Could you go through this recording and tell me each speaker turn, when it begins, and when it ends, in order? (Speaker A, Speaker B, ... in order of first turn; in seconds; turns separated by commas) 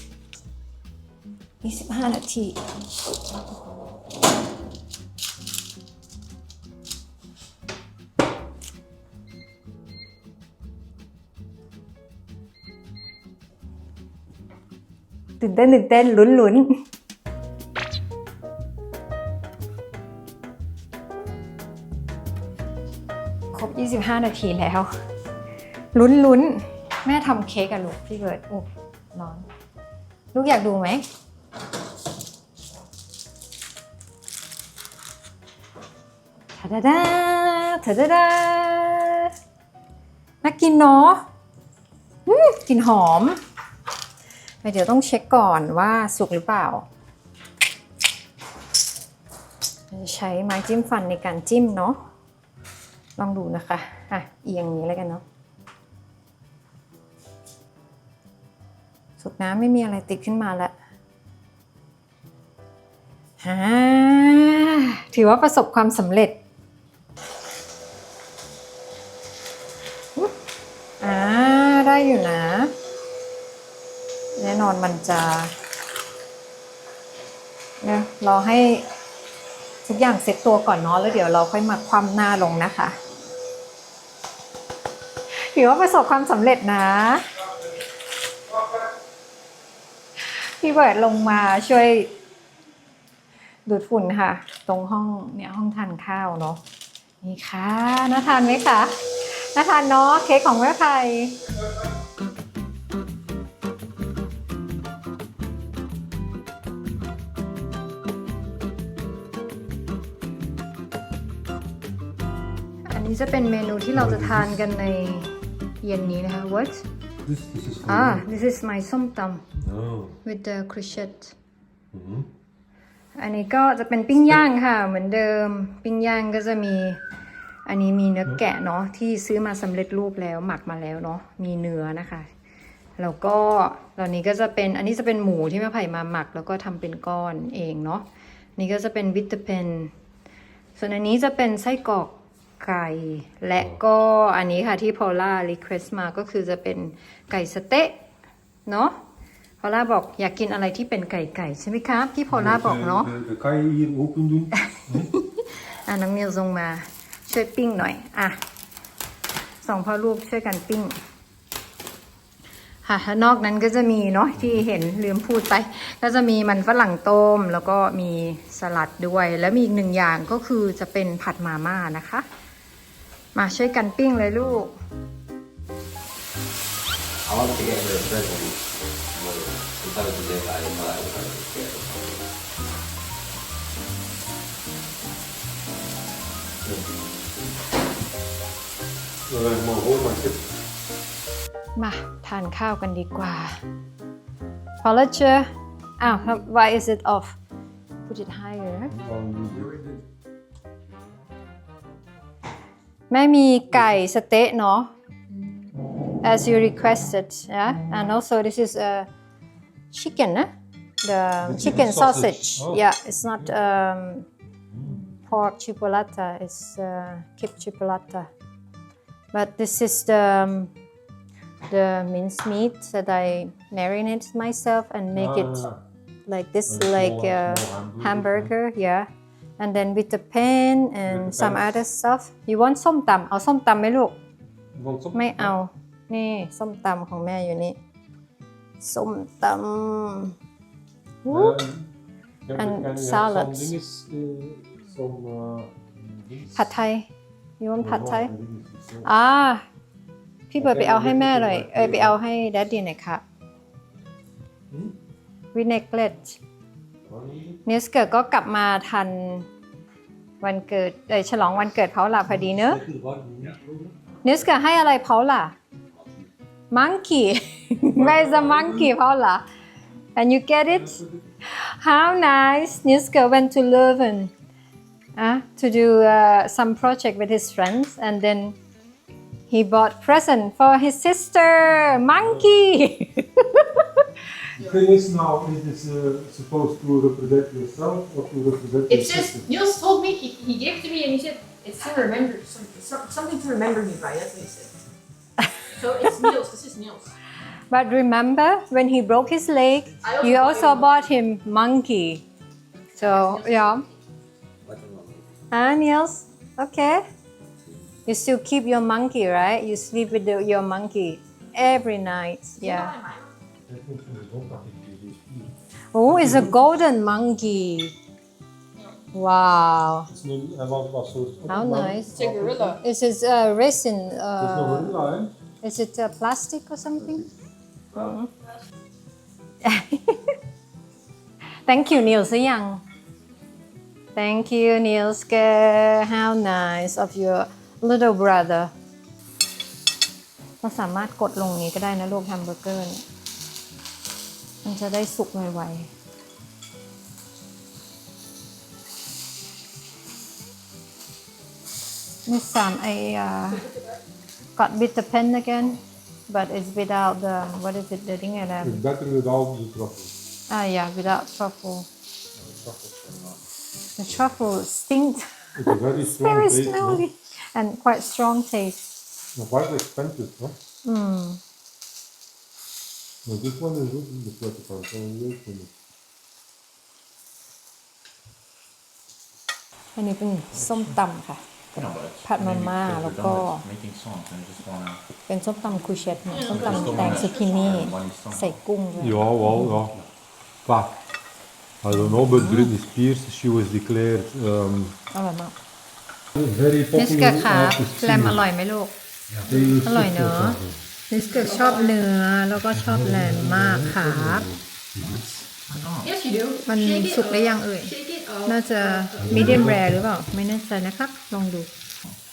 Speaker A: 1.6-2.6, Speaker A: 15.4-16.8, Speaker A: 23.5-24.9, Speaker A: 25.9-29.5, Speaker A: 30.3-31.1, Speaker A: 36.6-39.3, Speaker A: 40.4-41.2, Speaker A: 42.3-43.4, Speaker A: 44.6-46.9, Speaker A: 49.9-52.0, Speaker A: 53.2-55.2, Speaker A: 59.2-60.7, Speaker A: 63.4-66.3, Speaker A: 71.0-72.7, Speaker A: 74.4-75.5, Speaker A: 77.8-78.9, Speaker A: 79.8-83.0, Speaker A: 85.3-87.3, Speaker A: 90.2-92.1, Speaker A: 93.7-96.6, Speaker A: 97.2-101.4, Speaker A: 112.9-116.8, Speaker B: 113.9-114.7, Speaker B: 117.2-118.3, Speaker A: 117.8-119.5, Speaker B: 119.6-120.2, Speaker A: 120.2-121.3, Speaker B: 121.9-122.3, Speaker A: 123.2-127.0, Speaker A: 127.7-132.3, Speaker A: 133.0-138.1, Speaker A: 138.6-139.9, Speaker A: 140.8-148.1, Speaker A: 148.7-149.0, Speaker A: 149.6-153.1, Speaker B: 152.3-155.1, Speaker A: 154.8-158.4, Speaker A: 159.6-161.0, Speaker A: 162.8-172.3, Speaker A: 173.3-174.8, Speaker C: 177.2-182.3, Speaker B: 189.3-190.4, Speaker A: 191.8-193.6, Speaker A: 194.8-197.4, Speaker A: 198.1-198.9, Speaker B: 198.9-199.8, Speaker A: 203.1-204.9, Speaker B: 203.7-204.0, Speaker D: 205.3-205.7, Speaker A: 206.2-209.1, Speaker A: 209.9-210.5, Speaker A: 211.0-214.3, Speaker B: 211.4-213.5, Speaker B: 214.7-215.0, Speaker A: 215.2-218.3, Speaker A: 219.3-220.7, Speaker A: 221.7-225.7, Speaker B: 225.1-225.8, Speaker A: 226.3-234.2, Speaker B: 226.7-228.5, Speaker B: 231.1-231.7, Speaker B: 234.7-235.6, Speaker A: 235.1-237.8, Speaker A: 238.8-240.4, Speaker A: 241.2-241.6, Speaker B: 241.3-241.9, Speaker B: 242.5-246.7, Speaker A: 242.6-243.7, Speaker A: 246.6-247.1, Speaker A: 247.6-248.3, Speaker B: 247.8-249.1, Speaker A: 249.0-249.7, Speaker A: 250.5-253.2, Speaker B: 250.6-252.2, Speaker B: 254.7-255.0, Speaker A: 255.5-256.4, Speaker B: 257.1-257.6, Speaker A: 257.7-259.5, Speaker A: 260.4-262.8, Speaker B: 262.3-264.0, Speaker A: 264.2-265.6, Speaker C: 265.9-266.3, Speaker A: 266.7-269.4, Speaker B: 267.8-268.9, Speaker A: 270.2-274.3, Speaker B: 270.7-271.2, Speaker A: 275.2-278.6, Speaker A: 279.5-284.0, Speaker B: 282.1-282.5, Speaker B: 284.6-289.4, Speaker D: 288.9-294.7, Speaker D: 295.8-297.1, Speaker A: 297.7-302.2, Speaker D: 300.0-301.1, Speaker D: 302.9-303.9, Speaker A: 302.9-303.9, Speaker C: 304.6-305.4, Speaker A: 305.5-307.0, Speaker C: 307.6-308.0, Speaker A: 308.1-313.0, Speaker D: 312.6-313.2, Speaker B: 313.7-316.6, Speaker A: 315.9-317.9, Speaker A: 319.1-320.1, Speaker B: 320.1-322.8, Speaker A: 321.5-322.1, Speaker D: 322.1-322.8, Speaker A: 322.8-325.0, Speaker B: 324.4-325.4, Speaker A: 325.6-327.2, Speaker B: 327.0-327.3, Speaker A: 327.9-328.3, Speaker A: 329.6-330.3, Speaker A: 331.6-332.8, Speaker A: 334.1-338.7, Speaker A: 340.6-343.0, Speaker A: 344.6-345.9, Speaker A: 352.3-353.7, Speaker A: 354.6-358.8, Speaker B: 358.6-360.1, Speaker A: 360.5-361.9, Speaker A: 364.0-369.1, Speaker B: 365.6-367.0, Speaker B: 369.3-370.6, Speaker A: 370.8-371.4, Speaker B: 373.2-375.7, Speaker A: 380.0-381.4, Speaker E: 380.6-381.0, Speaker E: 381.7-385.0, Speaker A: 382.2-383.6, Speaker A: 385.3-389.7, Speaker D: 386.3-387.9, Speaker E: 386.5-388.5, Speaker B: 389.0-389.9, Speaker B: 390.6-390.9, Speaker B: 391.8-395.0, Speaker A: 391.9-392.7, Speaker A: 395.1-395.6, Speaker B: 396.4-398.4, Speaker A: 397.0-398.9, Speaker B: 399.3-400.8, Speaker D: 399.5-399.9, Speaker A: 399.8-404.5, Speaker D: 401.3-402.0, Speaker B: 402.7-405.2, Speaker E: 405.0-406.1, Speaker D: 406.0-409.7, Speaker A: 406.7-407.9, Speaker A: 408.4-411.7, Speaker B: 409.2-410.0